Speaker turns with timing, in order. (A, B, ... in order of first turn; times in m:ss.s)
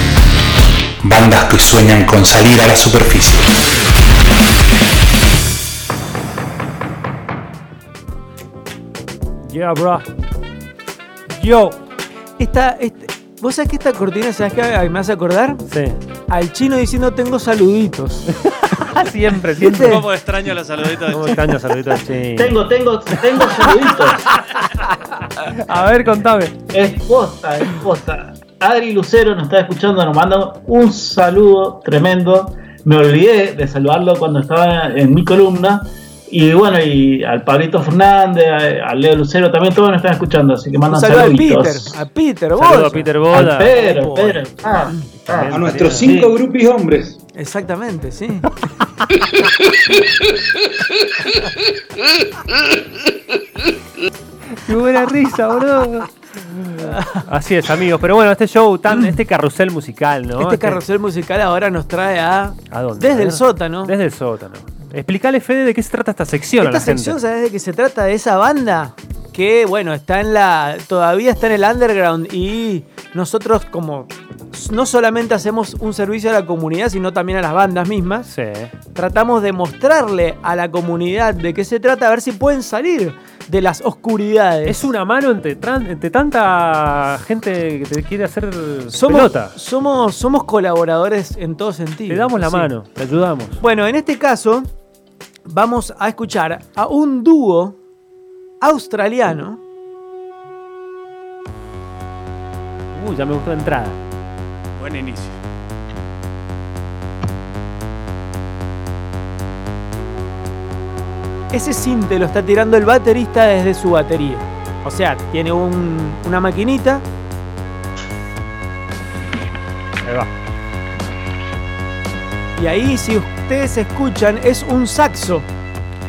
0:01.0-0:03.5 A
0:09.5-0:10.1 B
0:11.3-0:11.8 B
0:12.4-0:15.6 C
0:15.7-0:16.0 B
0:16.3-0:18.3 C
0:18.4-0:20.1 B
0:19.5-0:20.0 C
0:19.9-0:21.4 D
0:21.1-0:22.5 B
0:22.4-0:24.2 E
0:25.4-0:26.5 B
0:26.7-0:42.0 E
0:40.9-0:45.0 C
0:42.6-0:43.8 B
0:43.3-0:46.3 E
0:45.1-0:46.1 B
0:45.4-0:47.2 A
0:47.3-0:48.5 C
0:54.6-1:00.8 B
0:56.8-0:57.2 C
1:00.4-1:03.9 C
1:02.7-1:07.2 B
1:06.6-1:18.3 C
1:18.3-1:18.7 B
1:18.9-1:24.9 C
1:24.7-1:29.6 B
1:28.9-1:32.7 C
1:32.1-1:33.6 B
1:33.6-1:34.7 C
1:35.5-1:37.8 C
1:38.6-1:39.6 C
1:42.9-1:44.0 B
1:44.8-1:45.4 D
1:51.5-1:57.0 C
2:00.0-2:00.3 B
2:02.6-2:05.5 C